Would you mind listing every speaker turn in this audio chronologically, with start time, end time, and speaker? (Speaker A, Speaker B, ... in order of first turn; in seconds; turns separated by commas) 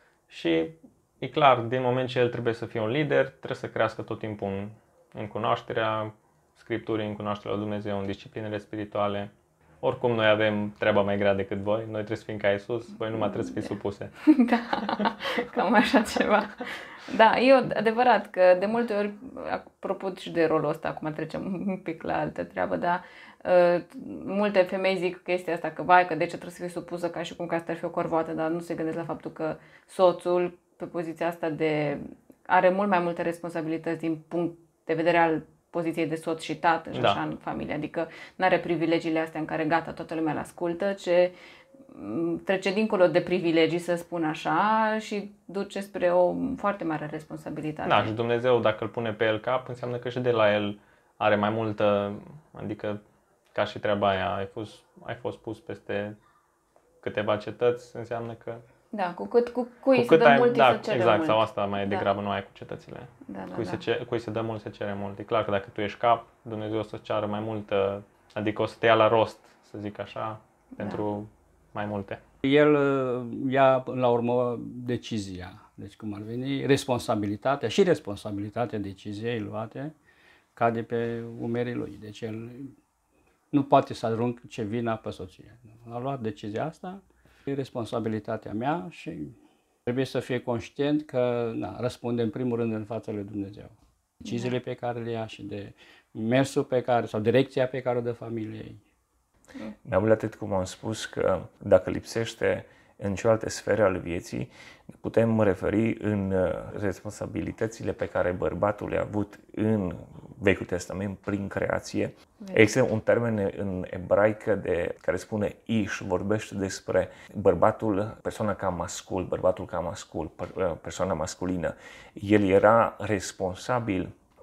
Speaker A: 0.3-14.2, Speaker B: 14.3-41.3, Speaker A: 14.8-15.1, Speaker A: 36.9-37.2, Speaker B: 41.9-48.1, Speaker A: 47.9-53.0, Speaker A: 53.5-56.2, Speaker A: 57.0-58.6, Speaker B: 58.9-62.1, Speaker A: 60.0-72.2, Speaker B: 63.3-63.8, Speaker C: 72.4-80.0, Speaker C: 80.6-82.8, Speaker C: 83.5-89.3, Speaker C: 89.8-98.8, Speaker B: 94.2-94.5, Speaker D: 99.8-124.1, Speaker B: 112.4-112.7